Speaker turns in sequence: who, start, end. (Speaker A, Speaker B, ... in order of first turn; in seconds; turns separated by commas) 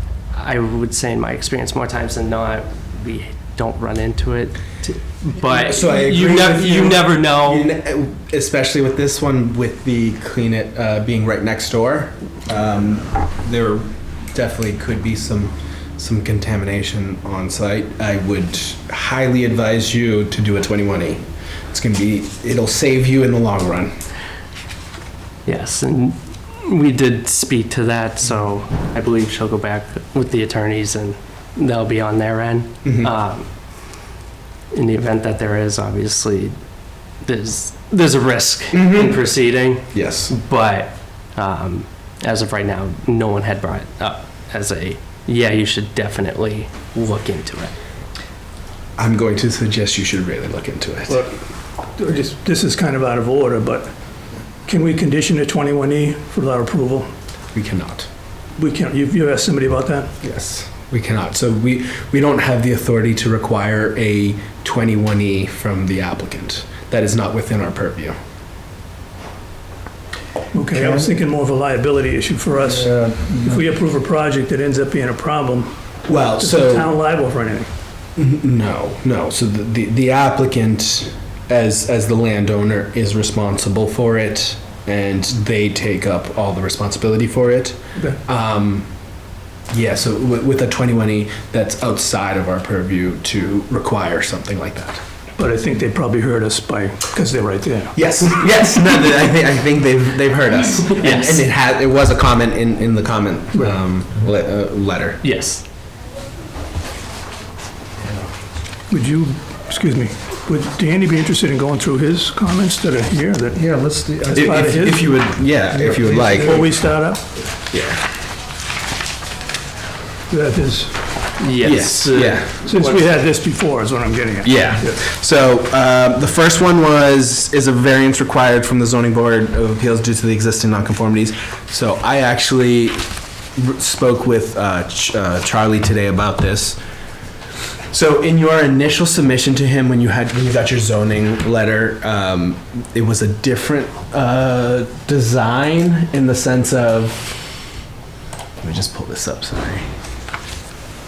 Speaker A: 0.3-7.7, Speaker B: 5.5-23.9, Speaker A: 25.5-33.5, Speaker B: 32.9-33.1, Speaker A: 34.7-36.5, Speaker A: 37.2-47.7, Speaker B: 38.7-39.2, Speaker B: 39.9-40.3, Speaker B: 49.0-51.3, Speaker C: 52.0-53.9, Speaker C: 54.7-57.1, Speaker B: 57.5-58.1, Speaker C: 58.6-60.1, Speaker B: 60.2-68.2, Speaker C: 70.5-75.8, Speaker D: 70.8-71.1, Speaker D: 72.6-73.6, Speaker B: 76.1-76.9, Speaker C: 76.4-77.7, Speaker B: 78.2-88.9, Speaker B: 89.7-95.0, Speaker C: 95.4-97.9, Speaker B: 98.0-105.2, Speaker A: 100.9-101.5, Speaker A: 105.2-105.7, Speaker B: 108.0-108.3, Speaker C: 108.9-113.6, Speaker D: 113.5-114.5, Speaker C: 114.3-115.1, Speaker B: 114.3-116.7, Speaker D: 115.8-116.6, Speaker C: 115.9-117.2, Speaker B: 117.7-118.0, Speaker C: 120.3-121.0, Speaker A: 121.4-123.1, Speaker B: 121.6-122.6, Speaker C: 122.6-125.0, Speaker B: 124.4-136.8, Speaker B: 137.9-147.4, Speaker B: 148.6-149.9